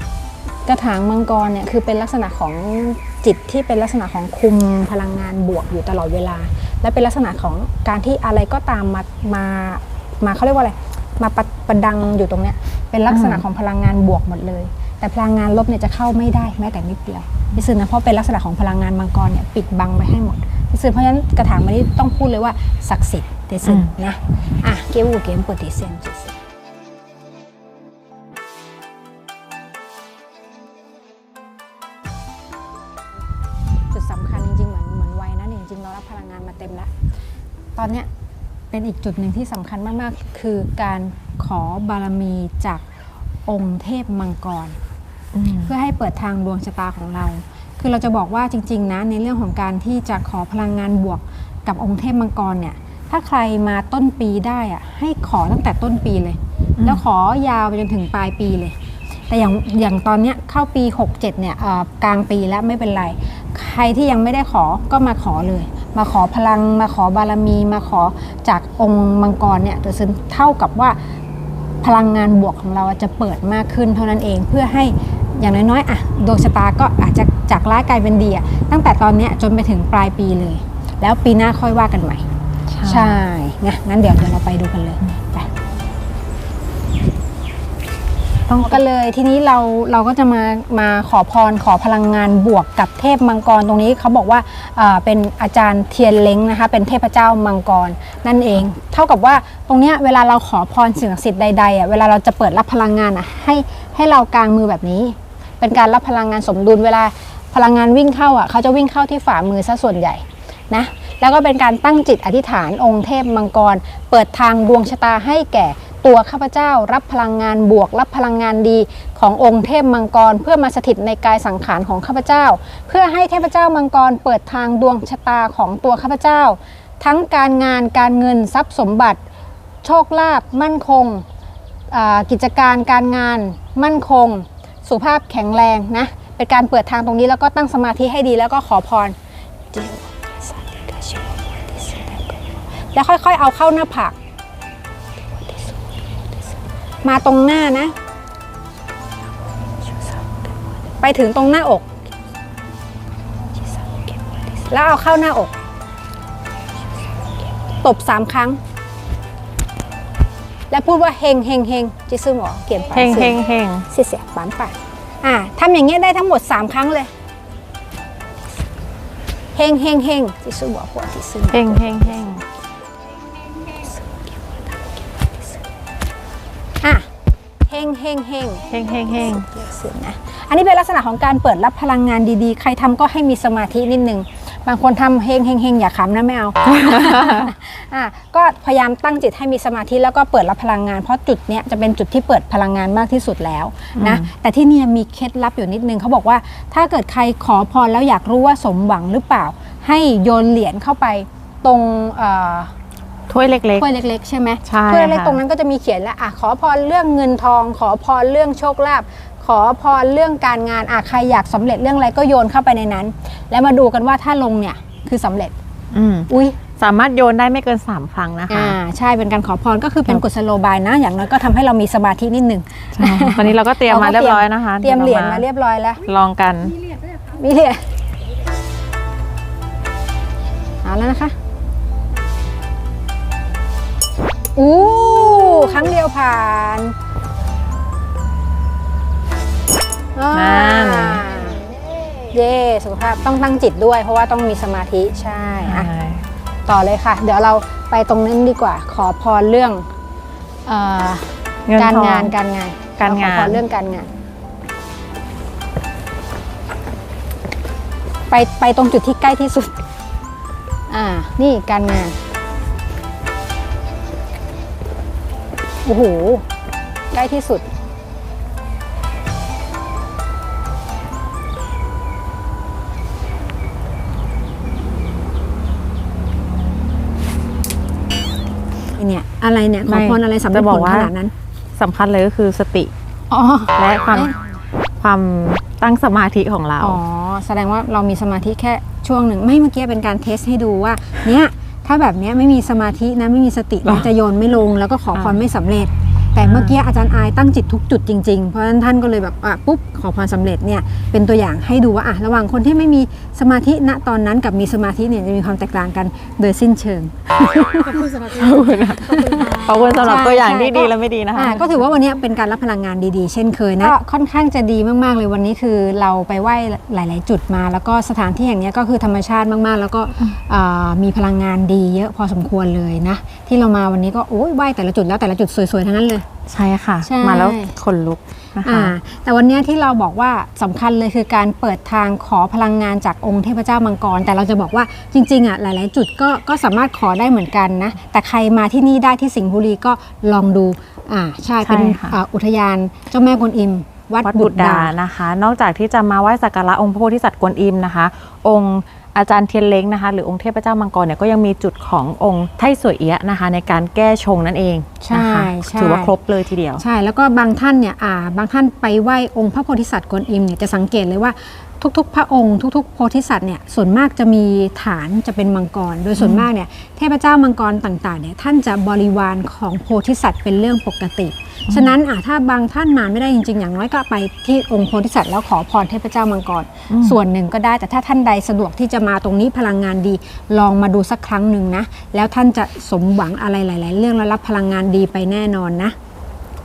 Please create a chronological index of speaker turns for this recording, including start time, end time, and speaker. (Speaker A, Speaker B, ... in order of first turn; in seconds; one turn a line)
Speaker A: 0.7-26.3
Speaker B: 13.1-13.4
Speaker B: 23.6-23.9
Speaker A: 33.9-36.9
Speaker A: 37.8-38.1
Speaker A: 38.7-42.8
Speaker A: 43.5-44.8
Speaker B: 45.3-45.7
Speaker A: 45.6-58.8
Speaker B: 56.8-57.0
Speaker A: 59.3-71.0
Speaker A: 71.8-82.2
Speaker B: 82.7-83.2
Speaker A: 82.8-85.5
Speaker B: 88.5-88.8
Speaker A: 88.6-129.2
Speaker A: 129.8-131.2
Speaker A: 131.9-139.2
Speaker A: 139.7-144.2
Speaker A: 145.4-146.1
Speaker A: 147.0-147.9
Speaker A: 149.8-152.1
Speaker A: 153.6-155.6
Speaker A: 157.6-158.6
Speaker A: 160.7-167.1
Speaker B: 162.9-163.9
Speaker A: 169.5-172.3
Speaker B: 171.5-172.4
Speaker A: 173.7-174.6
Speaker A: 176.8-177.1
Speaker A: 177.7-202.7
Speaker B: 178.7-179.5
Speaker B: 186.6-187.5
Speaker B: 193.9-194.2
Speaker B: 203.3-203.9
Speaker A: 203.8-215.6
Speaker B: 204.6-205.4
Speaker B: 215.9-218.8
Speaker A: 216.3-216.6
Speaker A: 218.5-226.1
Speaker B: 222.9-225.4
Speaker B: 226.0-226.8
Speaker A: 227.1-227.8
Speaker A: 230.8-231.3
Speaker A: 234.6-236.9
Speaker A: 240.1-241.6
Speaker B: 240.3-241.2
Speaker A: 242.3-245.9
Speaker B: 245.6-246.3
Speaker A: 246.7-249.9
Speaker A: 250.7-254.1
Speaker B: 251.7-252.3
Speaker B: 253.0-253.6
Speaker A: 258.3-259.8
Speaker A: 260.9-262.1
Speaker A: 265.8-266.4
Speaker A: 267.1-267.7
Speaker A: 278.9-281.3
Speaker B: 279.9-281.1
Speaker B: 281.8-282.9
Speaker A: 283.3-284.4
Speaker B: 283.8-284.3
Speaker B: 285.0-287.0
Speaker A: 286.8-308.2
Speaker B: 295.1-295.4
Speaker B: 296.4-296.7
Speaker B: 308.1-311.8
Speaker A: 309.0-326.2
Speaker B: 326.5-328.9
Speaker A: 327.0-327.7
Speaker A: 328.6-344.9
Speaker B: 341.6-342.2
Speaker B: 344.2-356.8
Speaker A: 355.0-356.1
Speaker A: 356.8-385.9
Speaker B: 366.2-366.5
Speaker B: 371.7-371.9
Speaker B: 376.9-377.2